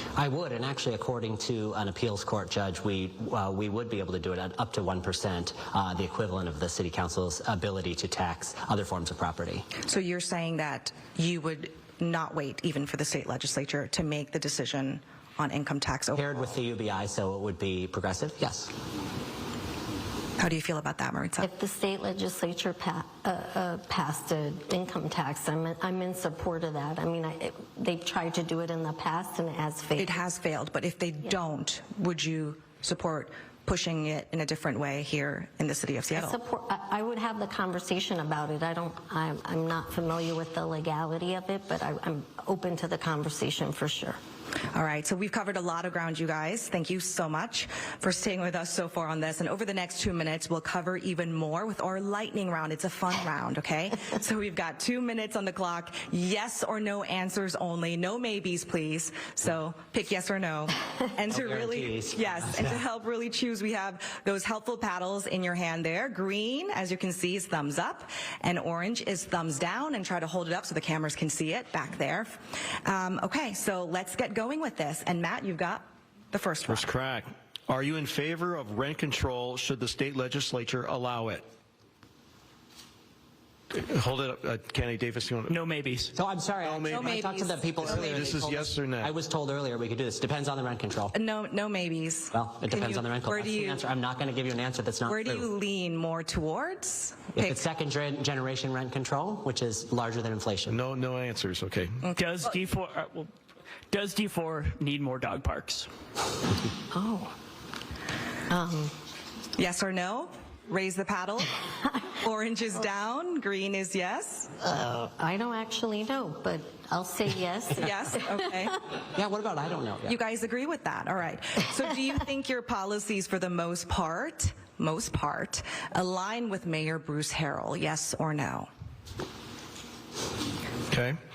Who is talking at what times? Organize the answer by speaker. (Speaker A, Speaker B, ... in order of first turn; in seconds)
Speaker A: 0.2-9.7, 16.1-18.7, 61.3-62.8, 86.2-91.2, 92.3-95.5, 97.4-100.8, 119.1-120.2
Speaker B: 9.8-16.5, 20.4-21.5, 30.0-36.4, 44.7-76.9, 86.9-88.4, 91.1-93.8, 95.1-97.6, 109.6-114.5, 117.8-118.8, 120.1-128.7
Speaker C: 21.4-30.2, 36.1-44.2, 106.9-107.3, 108.5-108.9, 114.6-118.3
Speaker D: 76.7-81.5, 83.7-85.6, 86.6-87.2, 87.8-89.1, 100.7-102.0, 130.9-131.2
Speaker E: 85.5-86.1, 102.1-103.3, 103.9-105.9